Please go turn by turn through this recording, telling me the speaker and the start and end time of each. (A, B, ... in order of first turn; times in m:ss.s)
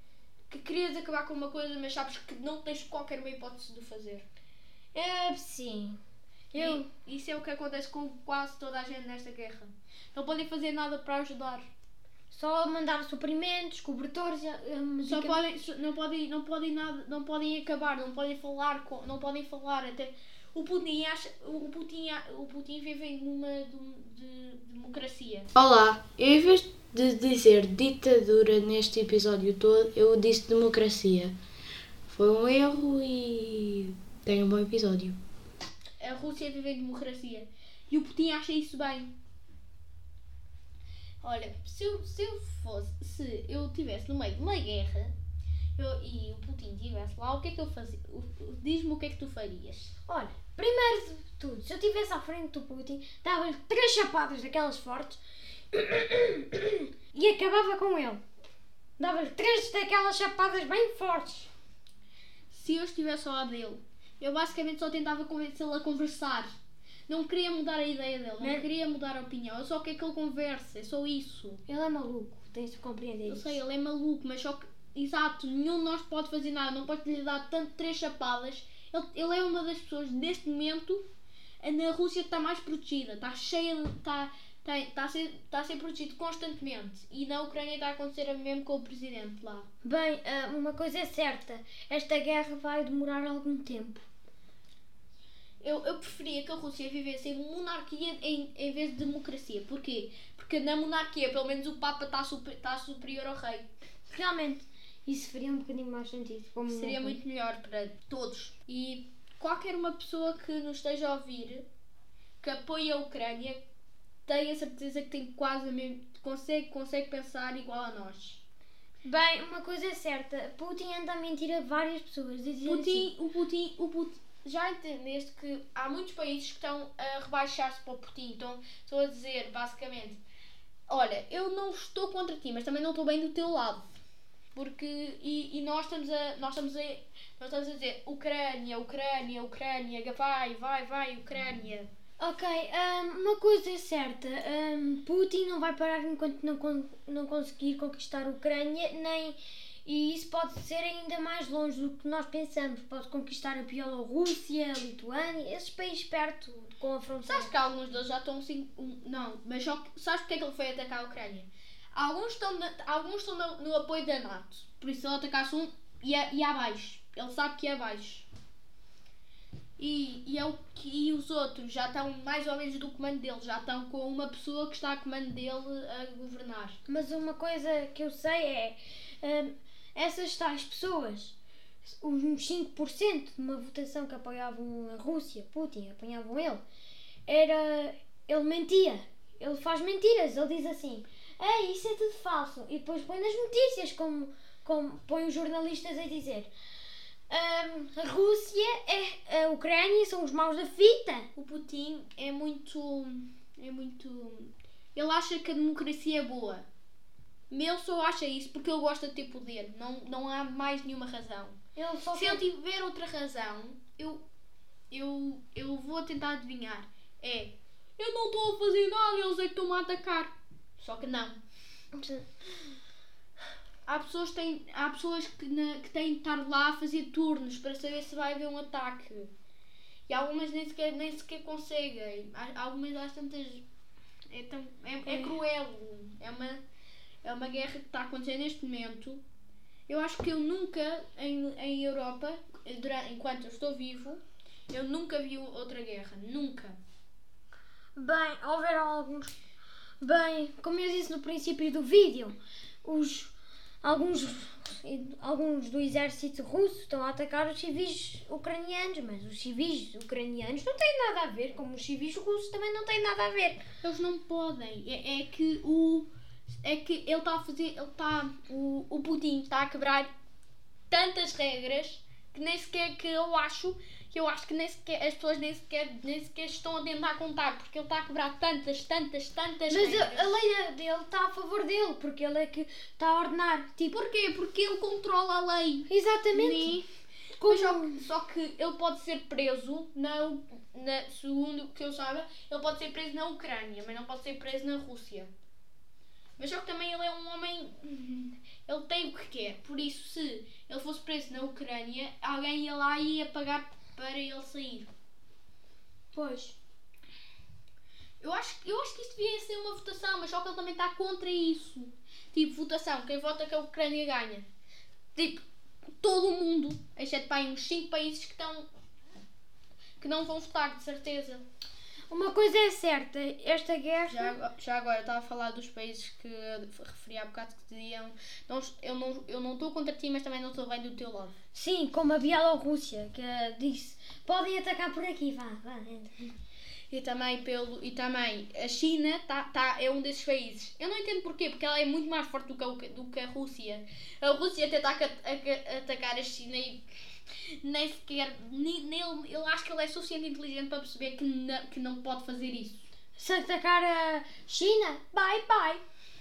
0:00.5-0:04.2 A
0:04.9-0:06.0 B
0:06.5-0:06.9 B
0:06.5-0:11.7 A
0:12.3-0:15.4 B
0:15.0-0:25.5 A
0:25.6-0:31.3 C
0:32.1-0:35.2 C
0:36.0-0:39.2 A
0:41.2-0:45.1 A
0:45.8-0:50.0 A
0:50.1-0:55.2 B
0:55.7-0:58.2 B
0:59.0-1:01.5 B
1:02.5-1:06.6 A
1:07.1-1:11.6 A
1:08.4-1:08.6 B
1:11.7-1:13.6 B
1:13.2-1:21.0 A
1:21.6-1:29.7 A
1:29.8-1:34.0 B
1:35.6-1:43.7 A
1:44.1-1:47.2 B
1:46.7-1:51.6 A
1:52.4-1:53.6 A
1:54.2-1:58.4 A
1:59.0-2:03.1 B
2:02.6-2:10.2 A
2:10.9-2:13.8 A
2:14.5-2:21.9 A
2:22.2-2:37.5 B
2:37.3-2:48.3 A
2:49.8-2:56.8 A
2:56.9-3:06.6 B
3:07.3-3:16.5 B
3:17.3-3:21.3 B
3:21.4-3:26.7 A
3:27.5-3:31.6 A
3:31.8-3:32.4 B
3:32.1-3:34.2 A
3:34.9-3:41.4 A
3:41.9-3:42.3 B
3:43.8-3:49.3 A
3:50.1-3:53.6 A
3:54.3-3:56.6 A
3:55.0-3:55.4 B
3:57.2-3:59.2 A
3:59.9-4:06.8 A
4:08.0-4:09.3 B
4:10.0-4:13.3 B
4:13.8-4:23.6 B
4:23.8-4:30.1 A
4:30.9-4:40.3 A
4:39.7-4:44.0 B
4:43.9-4:46.8 A
4:45.9-4:46.8 B
4:47.4-4:48.0 B
4:47.4-4:55.3 A
4:56.4-5:04.9 A
5:06.1-5:06.6 B
5:08.2-5:14.5 A
5:15.1-5:15.4 A
5:16.0-5:18.7 A
5:20.0-5:21.4 A
5:22.1-5:24.4 B
5:24.1-5:31.4 A
5:31.5-5:36.3 B
5:36.9-5:52.8 A
5:53.2-5:55.8 B